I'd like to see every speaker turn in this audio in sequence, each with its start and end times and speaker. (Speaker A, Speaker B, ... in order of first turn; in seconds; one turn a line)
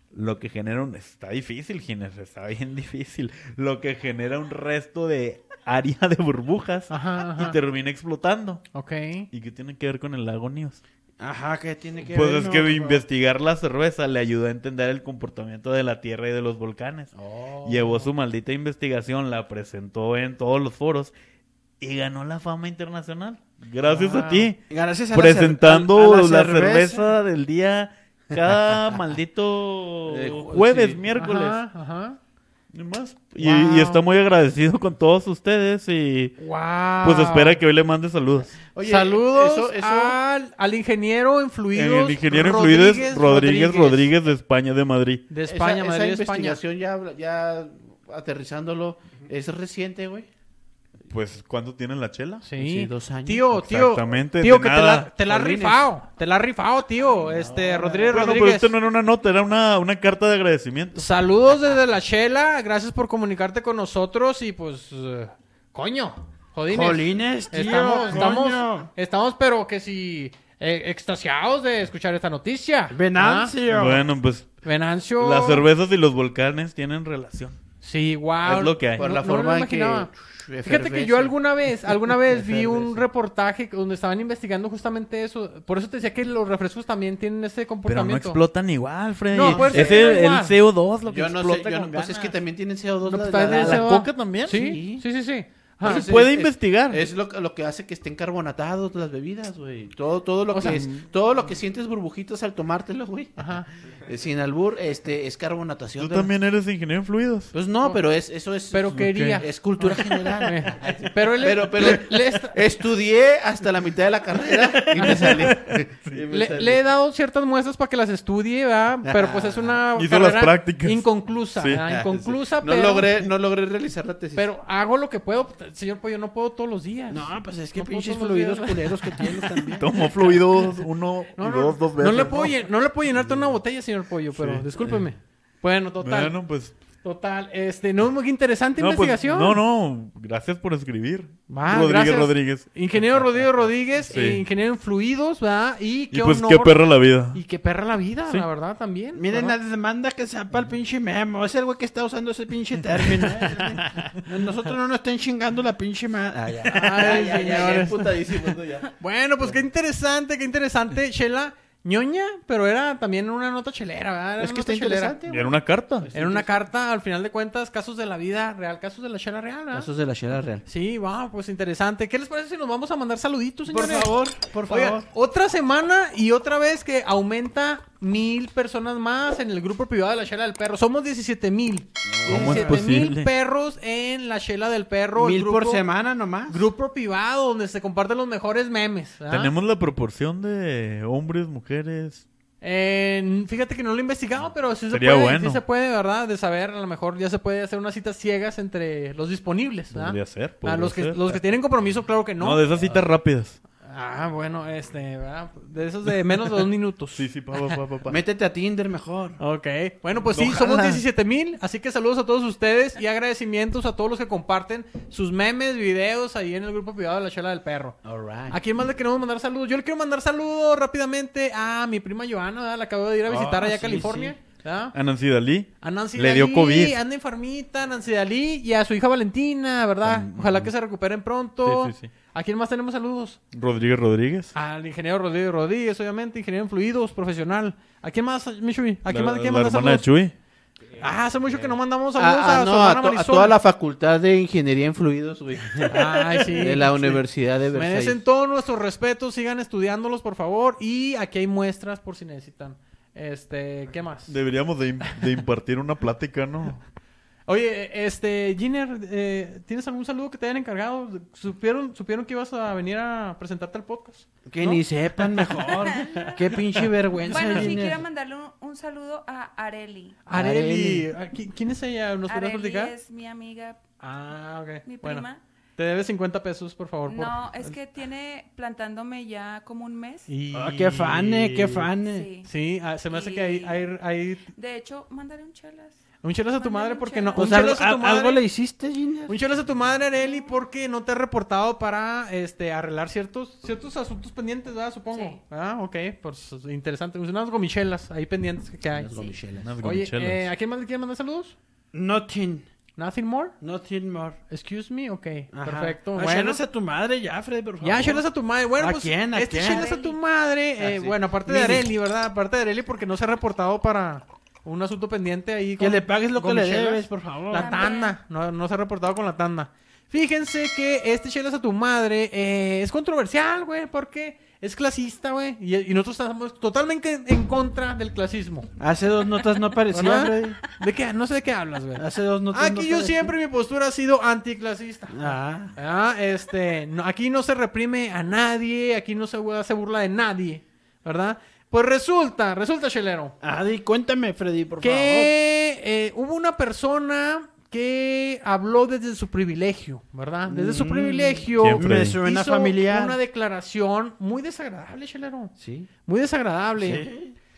Speaker A: 0.1-8.6
Speaker B: 6.9-7.6
Speaker B: 8.7-9.3
Speaker A: 9.3-10.8
Speaker C: 11.2-13.0
Speaker A: 12.1-17.1
Speaker D: 17.1-18.0
Speaker A: 17.6-21.1
Speaker A: 21.8-24.6
Speaker B: 23.9-24.5
Speaker C: 24.7-27.1
Speaker A: 25.1-31.6
Speaker D: 30.1-31.0
Speaker B: 31.1-32.2
Speaker A: 32.7-36.4
Speaker B: 33.4-34.0
Speaker B: 36.4-37.6
Speaker A: 37.0-38.6
Speaker D: 38.6-40.2
Speaker B: 38.8-44.1
Speaker A: 41.7-45.2
Speaker B: 45.3-46.6
Speaker D: 45.4-50.3
Speaker A: 51.1-52.5
Speaker B: 52.4-58.7
Speaker D: 52.6-53.6
Speaker A: 53.5-55.1
Speaker D: 55.3-55.7
Speaker D: 57.2-58.1
Speaker A: 58.1-61.0
Speaker B: 60.9-73.5
Speaker C: 66.7-68.9
Speaker C: 72.9-74.1
Speaker A: 73.7-74.6
Speaker B: 74.6-75.7
Speaker A: 75.2-77.6
Speaker B: 77.8-80.1
Speaker A: 78.5-79.0
Speaker D: 78.9-81.4
Speaker B: 80.6-88.4
Speaker D: 82.1-83.0
Speaker A: 87.8-92.3
Speaker B: 89.3-90.5
Speaker D: 89.4-90.2
Speaker D: 91.1-95.0
Speaker B: 93.0-96.1
Speaker A: 93.5-94.7
Speaker D: 95.8-106.3
Speaker A: 95.8-97.0
Speaker B: 100.5-100.8
Speaker A: 100.6-101.0
Speaker B: 103.4-103.7
Speaker A: 106.0-107.5
Speaker D: 107.5-116.8
Speaker B: 108.7-112.6
Speaker A: 108.9-109.4
Speaker A: 114.7-116.3
Speaker B: 114.9-115.5
Speaker B: 116.3-123.1
Speaker D: 119.1-119.7
Speaker A: 119.9-121.0
Speaker A: 121.5-121.8
Speaker D: 121.9-124.5
Speaker B: 124.3-129.7
Speaker C: 127.1-129.9
Speaker A: 129.8-132.6
Speaker B: 131.4-136.3
Speaker A: 134.3-135.1
Speaker A: 136.0-136.8
Speaker B: 137.0-139.6
Speaker A: 138.8-142.6
Speaker B: 141.5-149.6
Speaker A: 144.1-144.4
Speaker A: 146.1-147.4
Speaker C: 149.1-157.2
Speaker D: 153.5-153.7
Speaker A: 153.8-154.1
Speaker D: 156.4-159.6
Speaker B: 156.7-165.2
Speaker D: 164.4-166.6
Speaker A: 165.3-166.1
Speaker B: 166.1-169.9
Speaker D: 169.7-170.6
Speaker B: 170.7-174.1
Speaker C: 173.7-174.9
Speaker D: 174.4-175.0
Speaker B: 174.7-185.8
Speaker D: 182.2-182.6
Speaker C: 182.2-182.9
Speaker A: 182.3-183.3
Speaker C: 185.2-186.6
Speaker B: 186.5-189.5
Speaker A: 189.3-192.2
Speaker B: 192.6-202.6
Speaker A: 194.9-195.6
Speaker A: 199.9-201.4
Speaker A: 202.4-203.6
Speaker B: 203.8-207.8
Speaker A: 207.1-208.2
Speaker D: 208.1-209.4
Speaker B: 209.4-218.0
Speaker A: 210.3-211.0
Speaker D: 218.0-218.6
Speaker B: 218.5-224.9
Speaker D: 223.3-224.3
Speaker C: 223.4-224.2
Speaker A: 224.9-227.0
Speaker B: 225.8-233.4
Speaker A: 230.0-230.7
Speaker A: 231.6-232.1
Speaker A: 233.5-234.5
Speaker B: 234.5-240.1
Speaker A: 239.1-240.3
Speaker B: 241.0-243.5
Speaker D: 242.2-248.2
Speaker B: 245.8-254.3
Speaker A: 254.3-256.8
Speaker B: 257.5-267.8
Speaker C: 264.5-268.0
Speaker E: 265.9-266.4
Speaker E: 267.2-270.2
Speaker B: 270.2-272.9
Speaker C: 270.3-271.1
Speaker E: 272.3-273.8
Speaker B: 274.0-275.2
Speaker E: 274.8-275.4
Speaker B: 275.8-277.7
Speaker E: 277.1-280.3
Speaker B: 280.3-281.7
Speaker C: 280.5-282.3
Speaker E: 282.0-282.5
Speaker B: 282.4-284.5
Speaker E: 283.1-283.9
Speaker E: 284.5-286.0
Speaker B: 286.2-288.4
Speaker E: 286.6-287.7
Speaker C: 287.4-289.3
Speaker B: 289.3-301.6
Speaker E: 290.1-290.6
Speaker E: 295.1-295.4
Speaker D: 298.9-299.7
Speaker A: 299.6-300.5
Speaker C: 301.9-302.7
Speaker B: 303.0-303.5
Speaker C: 303.6-304.4
Speaker B: 304.5-306.6
Speaker C: 305.5-308.2
Speaker B: 307.8-328.7
Speaker C: 308.8-309.9
Speaker E: 309.5-310.1
Speaker C: 311.0-311.9
Speaker C: 315.8-317.8
Speaker E: 317.5-318.2
Speaker C: 328.8-330.6
Speaker B: 329.9-343.4
Speaker C: 331.9-333.3
Speaker C: 335.1-335.7
Speaker C: 343.4-345.3
Speaker B: 344.8-355.5
Speaker C: 350.5-353.2
Speaker A: 351.5-352.2
Speaker D: 355.6-355.9
Speaker B: 356.1-357.1
Speaker C: 356.8-357.3